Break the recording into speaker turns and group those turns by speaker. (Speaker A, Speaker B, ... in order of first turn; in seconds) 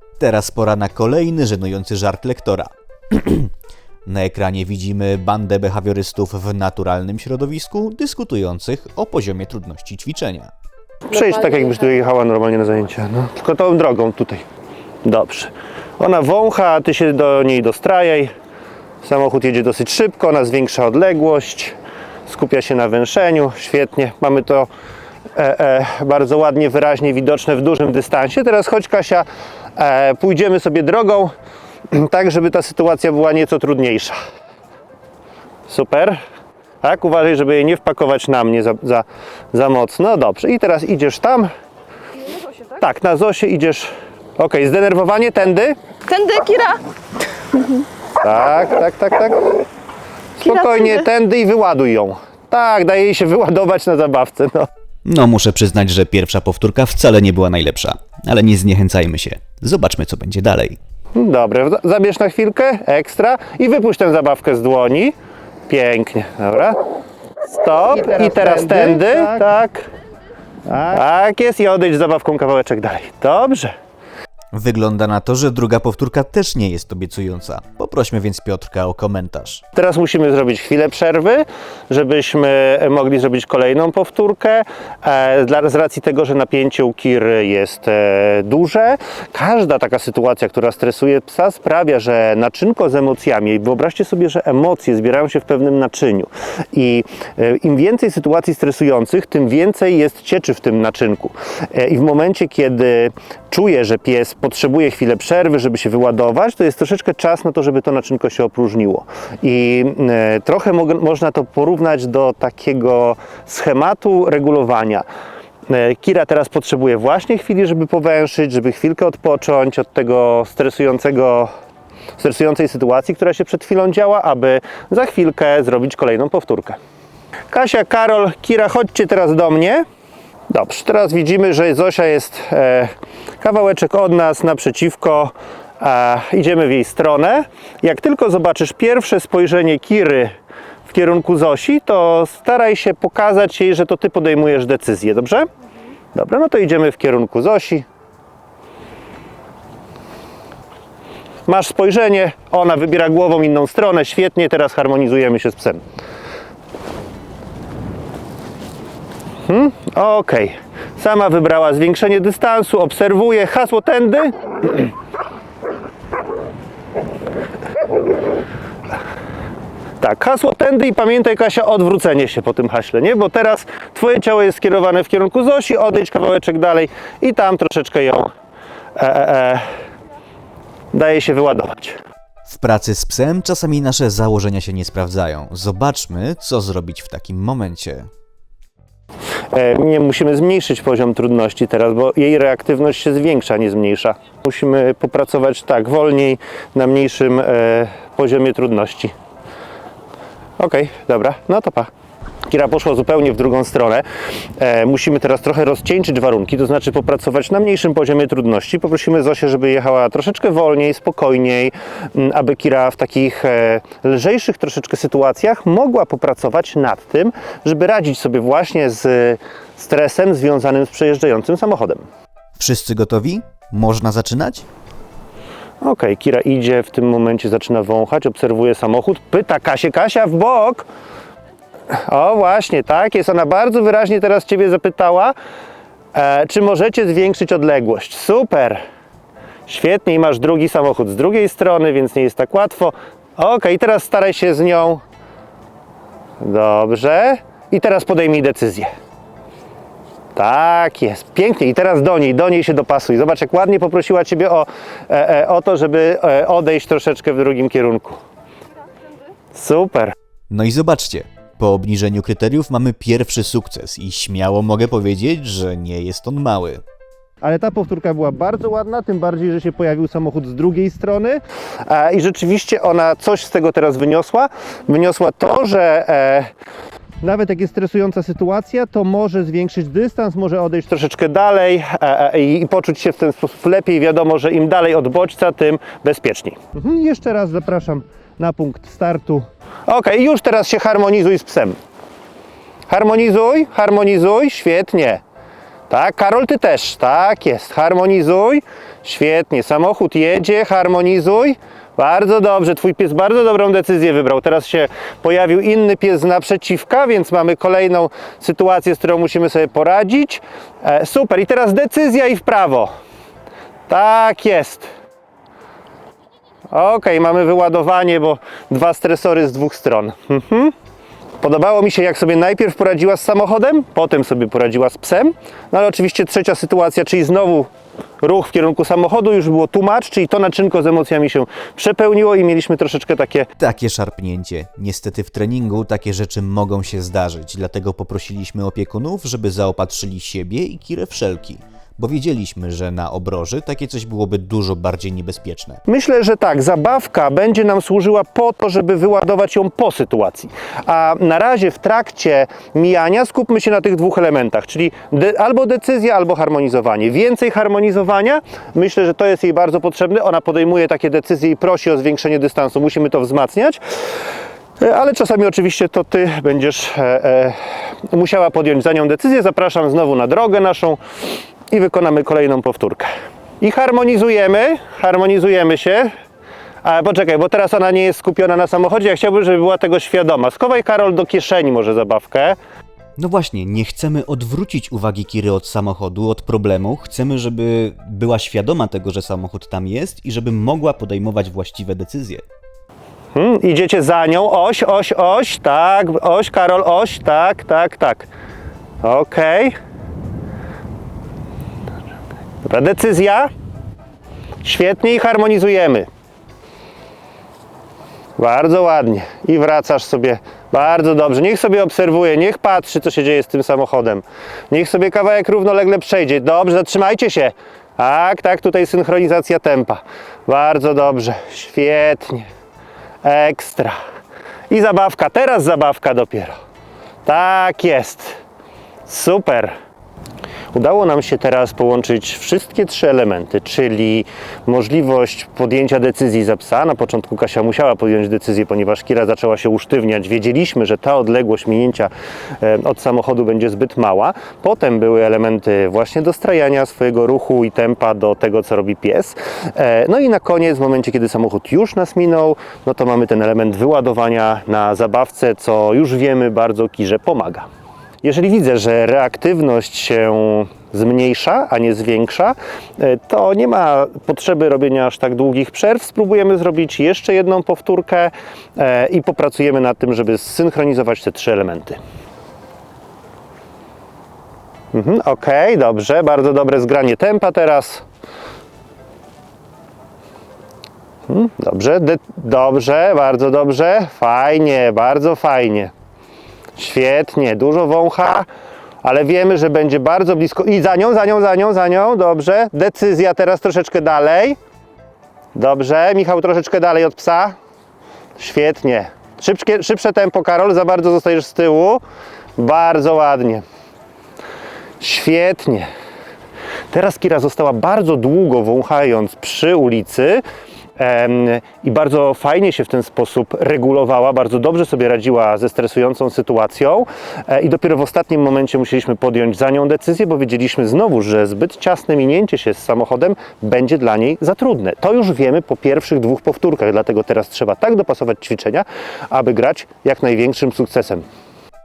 Speaker A: 0.2-3.5, 4.0-10.5, 55.0-60.8, 74.5-79.6, 182.5-188.1, 222.6-224.6, 260.5-266.8, 333.6-345.8, 383.2-392.4
Speaker B: 11.1-14.4, 15.0-18.3, 19.0-21.8, 22.3-24.7, 25.3-31.3, 31.9-34.2, 35.7-36.2, 36.8-41.5, 42.8-45.8, 48.2-49.6, 50.4-54.7, 61.1-65.1, 65.7-66.8, 67.5-69.9, 70.8-73.7, 79.7-115.0, 115.7-121.5, 122.2-126.8, 127.5-129.8, 130.5-145.5, 146.1-147.8, 151.5-155.8, 159.5-164.9, 170.0-178.3, 178.9-179.7, 180.9-182.0, 189.5-199.1, 200.6-201.9, 202.5-204.0, 204.6-222.0, 225.8-230.8, 231.9-235.3, 236.1-238.8, 239.7-245.0, 246.4-248.9, 250.3-258.2, 259.5-260.1, 267.4-276.5, 277.2-291.8, 292.9-295.2, 295.9-312.9, 313.9-314.9, 316.7-320.7, 321.4-327.7, 328.2-333.5, 345.9-363.8, 364.8-371.0, 371.7-373.1, 373.6-376.1, 376.8-382.6, 393.3-398.3, 399.0-399.7, 402.6-403.5, 404.6-406.1, 408.4-422.5, 423.2-423.9, 424.7-426.6, 427.2-428.4, 429.1-429.7, 430.7-457.6, 458.2-472.0, 474.9-478.0, 481.3-485.9, 486.8-488.5, 489.0-494.6, 495.5-497.6, 498.4-502.0, 502.6-503.6, 505.0-505.9, 506.9-510.4, 511.0-531.2
Speaker C: 11.1-11.7, 46.1-46.8, 50.4-51.0, 68.2-69.2